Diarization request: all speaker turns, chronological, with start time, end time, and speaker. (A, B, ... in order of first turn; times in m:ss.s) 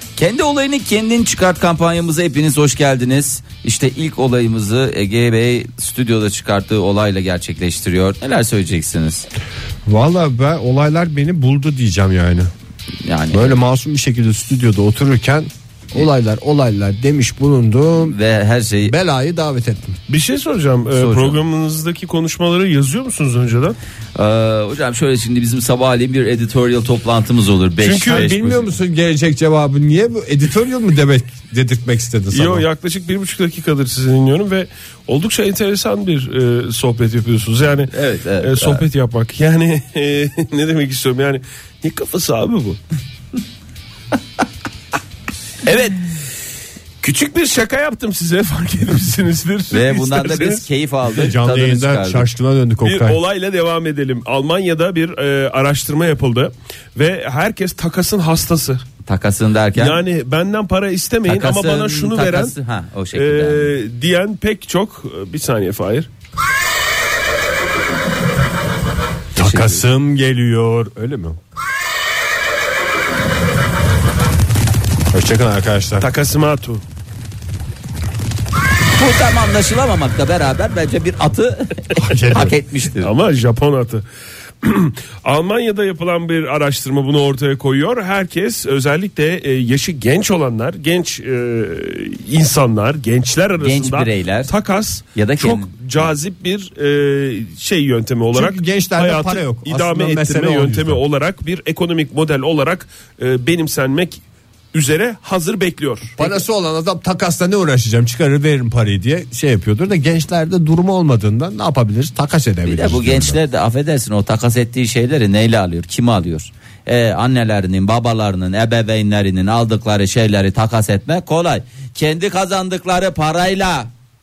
0:00.2-0:09.3 A
0:09.9-0:12.5 B
0:13.0-0:13.6 A
0:13.3-0:18.2 B
0:18.0-0:19.0 A
0:18.8-0:20.0 B
0:20.1-0:23.8 C
0:21.0-0:21.4 A
0:24.2-0:28.7 A
0:27.8-0:28.4 C
0:28.1-0:32.6 B
0:32.3-0:42.8 C
0:37.9-0:38.8 A
0:45.7-0:46.0 A
0:47.0-0:50.6 C
0:49.7-0:52.3 A
0:51.2-0:53.2 B
0:52.8-0:58.8 C
0:59.0-1:00.0 A
0:59.8-1:02.6 C
1:01.3-1:03.7 A
1:03.1-1:06.1 C
1:09.4-1:11.4 B
1:09.4-1:09.8 A
1:15.1-1:16.1 B
1:16.0-1:16.8 C
1:19.0-1:23.1 A
1:22.0-1:22.6 B
1:23.0-1:24.0 C
1:24.6-1:44.2 C
1:33.6-1:34.5 A
1:35.2-1:35.7 A
1:38.3-1:41.0 B
1:44.7-1:46.2 C
1:46.2-1:53.4 B
1:52.7-2:03.9 A